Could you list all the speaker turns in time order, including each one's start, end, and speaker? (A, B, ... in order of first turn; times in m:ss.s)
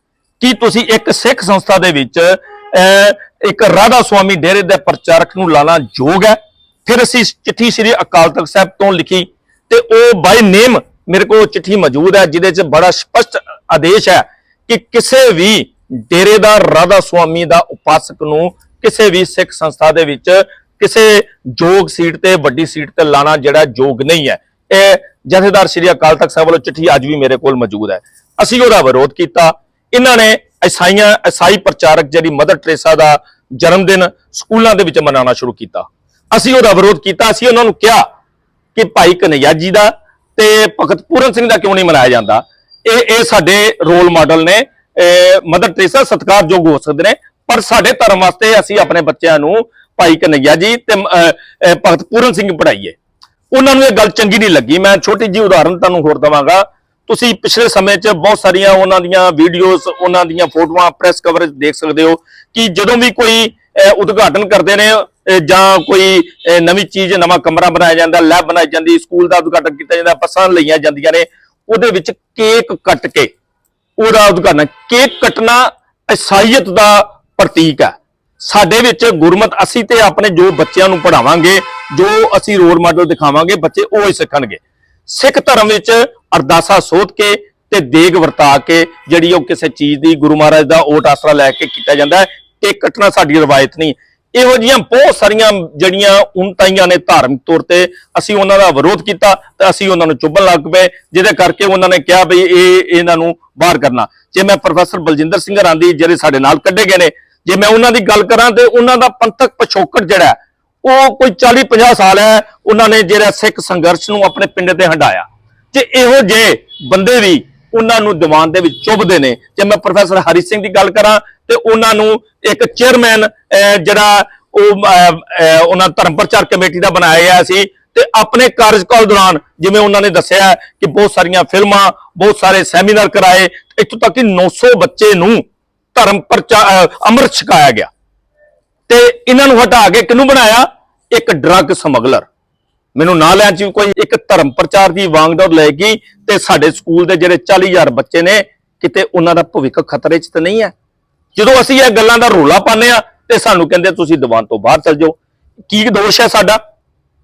0:00.4-0:38.0 A
0:38.7-0:53.0 A
0:53.5-1:13.3 A
1:14.0-2:17.9 A
2:18.9-2:22.3 A
2:22.9-2:30.7 A
2:31.4-2:35.2 A
2:35.7-2:36.6 A